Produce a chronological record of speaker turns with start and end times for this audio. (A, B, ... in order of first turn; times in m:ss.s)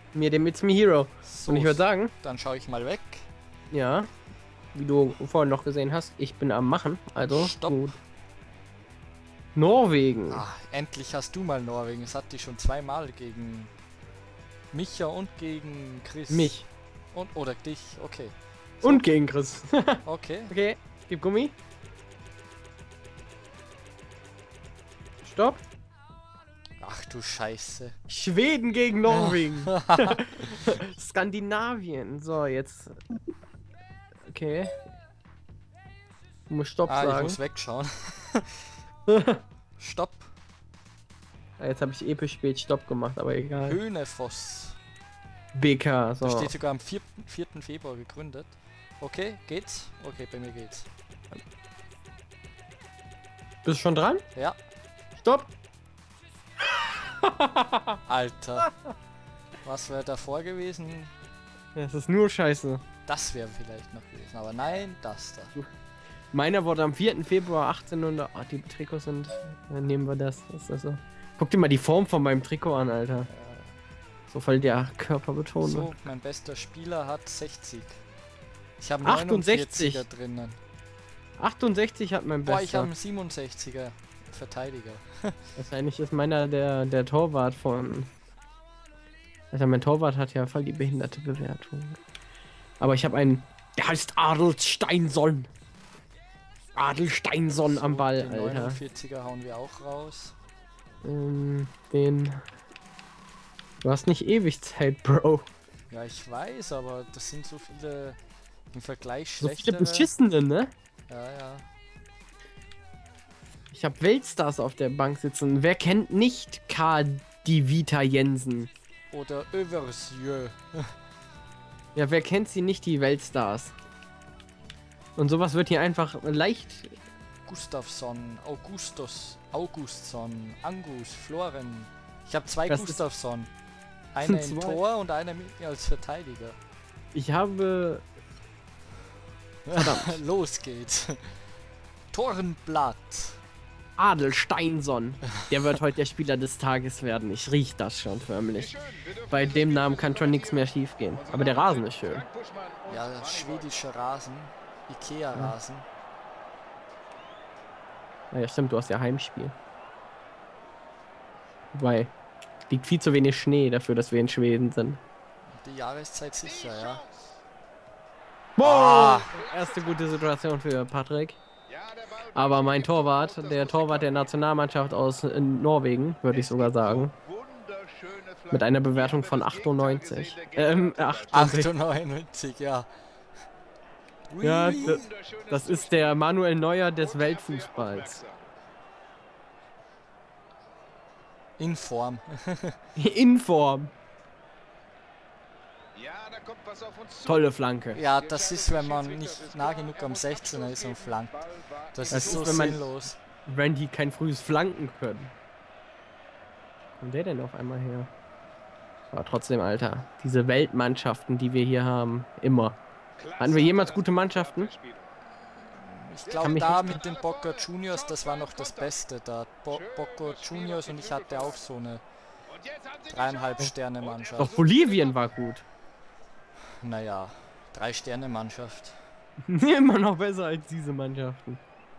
0:00.1-0:02.1 A
0:01.2-0:03.3 B
0:03.7-0:04.1 A
0:04.7-0:08.0 A
0:07.3-0:08.0 B
0:09.5-0:10.4 A
0:10.3-0:13.7 B
0:14.7-0:16.6 B
0:16.3-0:16.6 A
0:17.1-0:19.1 B
0:18.8-0:21.5 A
0:20.0-0:20.5 B
0:25.2-0:25.6 A
0:26.8-0:27.9 B
0:28.1-0:33.0 A
0:29.1-0:30.0 B
0:34.3-0:34.7 A
0:36.5-0:37.4 A
0:36.8-0:38.7 B
0:39.1-0:39.4 A
0:39.8-0:40.3 B
0:41.6-0:43.8 A
0:43.6-0:44.8 B
0:45.5-0:46.5 A
0:46.2-0:50.9 B
0:53.6-0:54.2 A
0:55.2-0:55.5 A
0:56.8-0:58.0 A
0:58.0-0:58.7 B
0:59.6-1:01.1 B
1:01.7-1:02.8 A
1:03.1-1:05.5 B
1:06.3-1:13.3 A
1:13.2-1:13.8 B
1:14.3-1:15.9 A
1:15.6-1:18.0 B
1:18.8-1:20.6 B
1:19.0-1:20.1 A
1:21.4-1:22.9 A
1:22.4-1:25.3 B
1:25.6-1:28.1 A
1:29.5-1:32.0 A
1:32.8-1:35.5 A
1:36.7-1:38.8 A
1:37.5-1:40.3 B
1:41.0-1:42.4 A
1:43.8-1:45.5 A
1:45.9-1:48.2 B
1:48.7-1:50.1 B
1:49.4-1:50.7 A
1:51.1-1:51.7 B
1:53.7-1:58.7 A
1:59.1-2:00.9 B
2:01.9-2:03.7 A
2:05.2-2:07.0 A
2:07.4-2:13.5 B
2:12.7-2:13.0 A
2:14.1-2:16.6 B
2:14.2-2:14.8 A
2:17.1-2:18.0 A
2:19.7-2:21.2 B
2:19.7-2:20.2 A
2:22.1-2:23.4 B
2:24.0-2:28.7 A
2:28.5-2:33.8 C
2:29.3-2:32.2 A
2:32.9-2:35.8 B
2:38.3-2:39.5 A
2:41.7-2:42.1 A
2:42.7-2:45.0 A
2:45.5-2:47.0 B
2:46.4-2:47.4 C
2:48.6-2:51.4 A
2:48.6-2:49.3 B
2:49.1-2:50.2 C
2:51.7-2:54.3 C
2:52.3-2:57.1 A
2:56.3-3:01.5 C
2:58.5-3:01.7 A
3:01.3-3:02.9 B
3:04.3-3:05.0 B
3:04.4-3:08.2 A
3:04.6-3:06.2 C
3:07.0-3:08.4 C
3:11.6-3:12.8 B
3:13.0-3:13.9 A
3:15.9-3:17.5 C
3:17.2-3:18.0 A
3:17.9-3:21.4 B
3:18.1-3:22.8 C
3:21.9-3:23.2 B
3:22.1-3:23.0 A
3:23.5-3:25.3 A
3:27.0-3:28.1 A
3:29.1-3:32.8 A
3:33.2-3:35.2 C
3:33.4-3:34.7 A
3:35.4-3:42.0 B
3:36.2-3:39.0 C
3:36.4-3:37.0 A
3:39.7-3:41.7 C
3:42.5-3:45.2 C
3:43.1-3:44.7 B
3:44.4-3:45.6 A
3:46.8-3:49.0 B
3:49.5-3:51.6 A